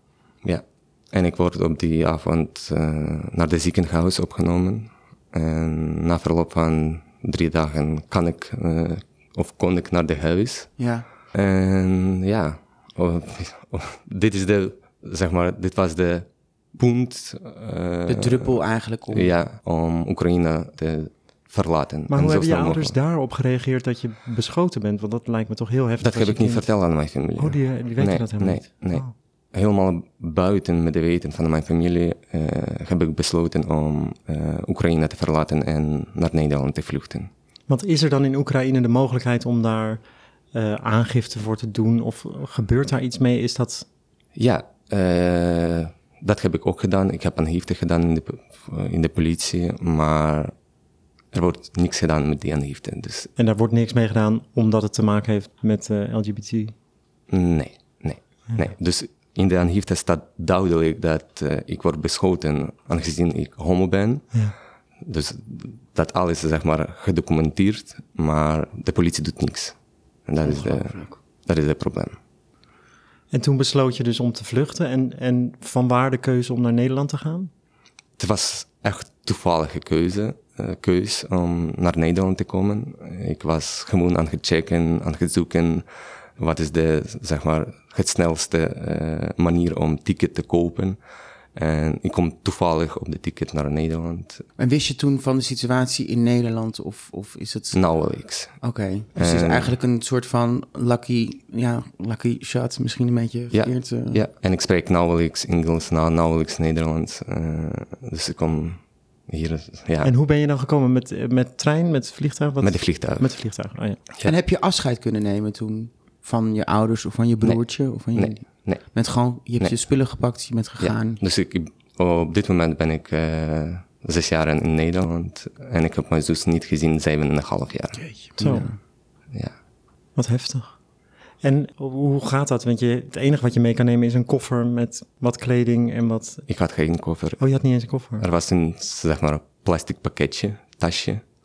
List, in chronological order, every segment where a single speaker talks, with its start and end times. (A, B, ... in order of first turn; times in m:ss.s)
0:00.4-0:10.7 A
0:10.8-0:11.0 B
0:11.3-0:18.5 A
0:18.1-0:19.3 B
0:19.1-0:22.9 A
0:22.1-0:26.7 C
0:26.0-0:37.3 A
0:27.4-0:29.1 C
0:37.7-0:40.0 C
0:40.5-0:43.9 C
0:44.3-0:50.5 A
0:51.3-0:53.3 A
0:53.4-0:56.7 C
0:57.3-1:04.3 A
1:05.0-1:12.2 A
1:10.5-1:10.9 B
1:13.3-1:17.5 C
1:18.2-1:25.8 A
1:26.4-1:31.0 A
1:31.5-1:34.4 A
1:34.6-1:37.8 B
1:37.7-1:38.5 A
1:38.6-1:44.2 B
1:39.2-1:39.7 A
1:43.5-1:50.1 A
1:50.0-1:54.0 C
1:52.6-1:53.4 A
1:54.2-2:01.2 B
1:58.1-1:58.8 A
2:00.8-2:08.0 A
2:08.0-2:08.8 B
2:08.4-2:08.7 C
2:10.2-2:10.7 C
2:11.4-2:16.4 C
2:16.5-2:17.4 A
2:17.4-2:18.2 C
2:18.2-2:21.2 A